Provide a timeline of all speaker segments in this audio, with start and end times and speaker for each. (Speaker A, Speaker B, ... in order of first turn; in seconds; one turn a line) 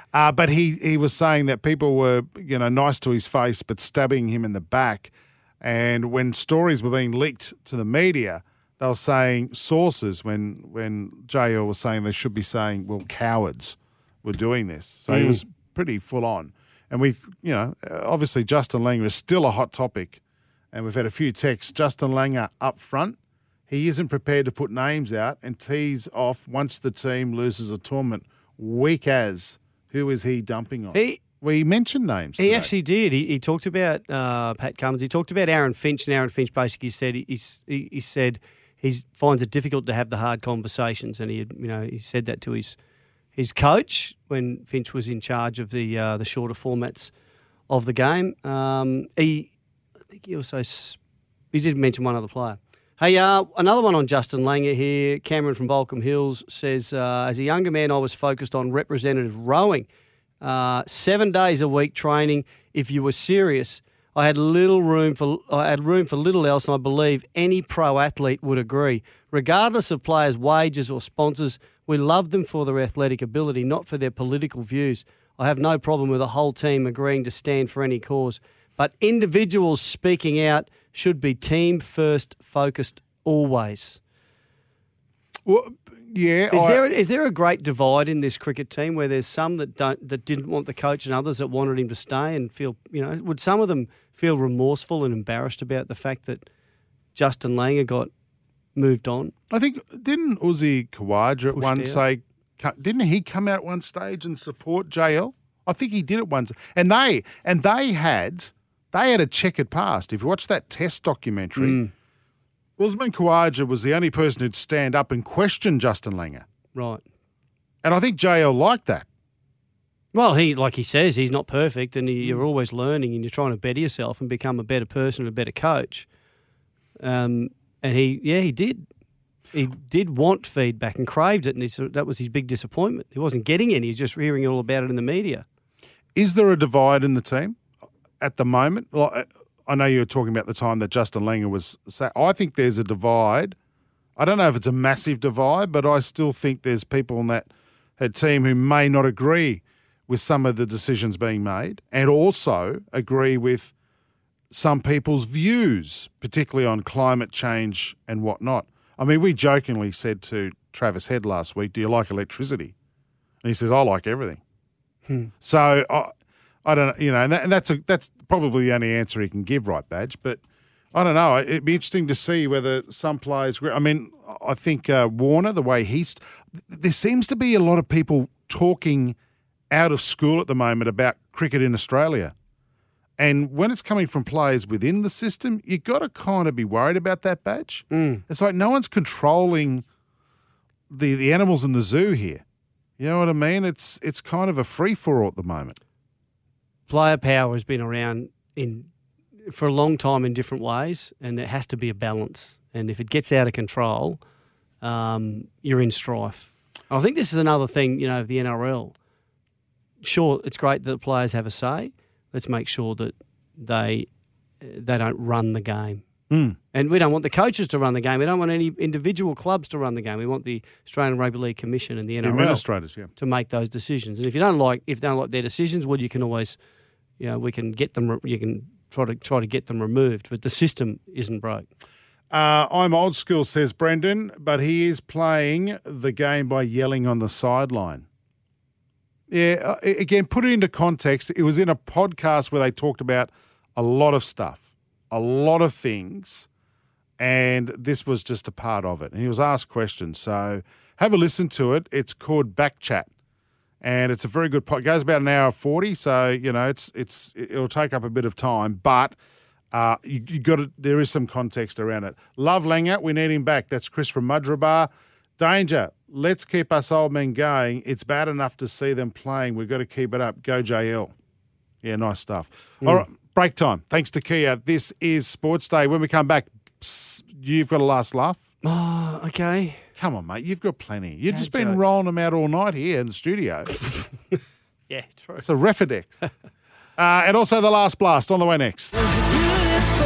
Speaker A: 0.1-20.2
Speaker B: 15.1-15.4
Speaker A: 20.7-23.2
Speaker A: 23.7-32.7
Speaker B: 30.9-31.2
Speaker B: 32.4-42.8
Speaker B: 43.4-47.1
Speaker B: 47.7-49.5
Speaker B: 50.1-51.0
Speaker B: 51.5-59.9
Speaker B: 60.4-84.0
Speaker A: 85.5-86.8
Speaker B: 86.5-96.5
Speaker B: 97.2-98.1
Speaker B: 98.8-99.3
Speaker A: 99.5-111.8
Speaker B: 101.5-102.0
Speaker B: 111.6-111.9
Speaker A: 112.8-116.5
Speaker B: 116.8-117.0
Speaker A: 117.8-119.1
Speaker B: 120.1-126.1
Speaker B: 127.0-128.9
Speaker B: 129.5-135.4
Speaker A: 136.2-137.6
Speaker A: 138.2-143.6
Speaker A: 144.2-153.7
Speaker A: 154.5-162.7
Speaker A: 163.4-164.4
Speaker A: 165.4-166.1
Speaker A: 166.7-170.4
Speaker A: 170.9-179.2
Speaker A: 179.7-182.3
Speaker A: 183.2-189.8
Speaker B: 187.9-188.2
Speaker A: 190.9-192.4
Speaker A: 193.0-195.8
Speaker B: 196.9-198.9
Speaker B: 199.5-204.2
Speaker B: 204.8-208.9
Speaker B: 210.0-214.1
Speaker B: 214.6-216.0
Speaker A: 216.3-216.6
Speaker B: 216.7-222.7
Speaker A: 222.2-223.1
Speaker B: 223.2-226.6
Speaker B: 227.2-231.7
Speaker A: 232.3-238.1
Speaker A: 239.3-246.5
Speaker A: 247.2-253.1
Speaker A: 253.8-259.2
Speaker A: 259.7-271.1
Speaker A: 271.8-278.4
Speaker B: 278.6-279.8
Speaker A: 280.0-283.8
Speaker B: 281.3-281.8
Speaker B: 284.9-285.5
Speaker A: 285.4-286.2
Speaker A: 287.0-289.0